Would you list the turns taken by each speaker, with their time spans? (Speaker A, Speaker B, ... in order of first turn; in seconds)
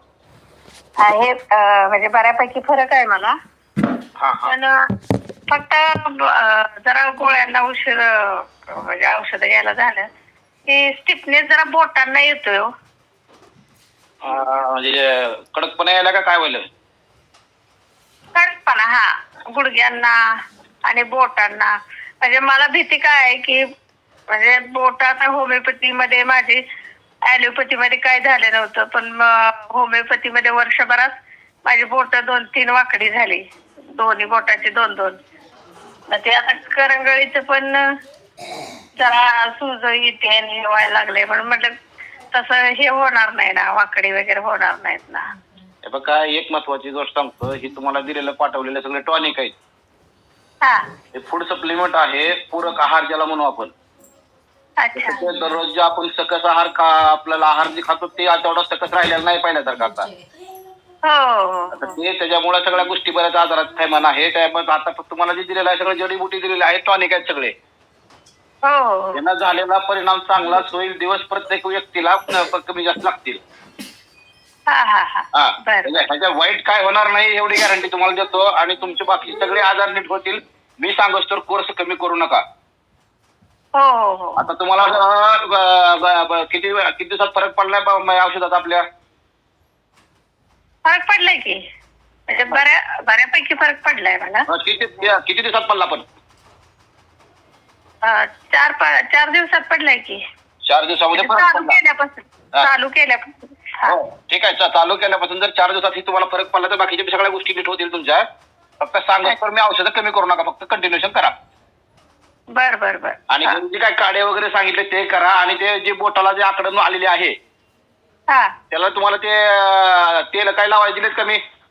Speaker A: 1.0-3.3, 4.5-4.7, 5.5-10.1, 10.7-12.7, 18.3-20.2, 20.9-23.6, 24.3-26.6, 27.3-31.1, 31.6-33.4, 33.9-35.2, 36.1-37.8, 39.0-41.7, 42.3-45.2, 54.8-55.2, 61.0-61.9, 68.6-69.2, 74.7-76.0, 83.7-85.0, 90.8-91.6, 92.3-94.5, 98.0-100.2, 101.1-104.0, 112.5-113.6
Speaker B: 4.2-4.5, 14.2-16.6, 45.9-49.5, 51.1-53.7, 55.0-60.1, 61.7-67.5, 69.1-73.4, 75.3-82.4, 84.4-88.8, 94.5-96.0, 100.7-101.8, 103.9-108.2, 108.8-111.3, 113.3-117.3, 118.7-121.4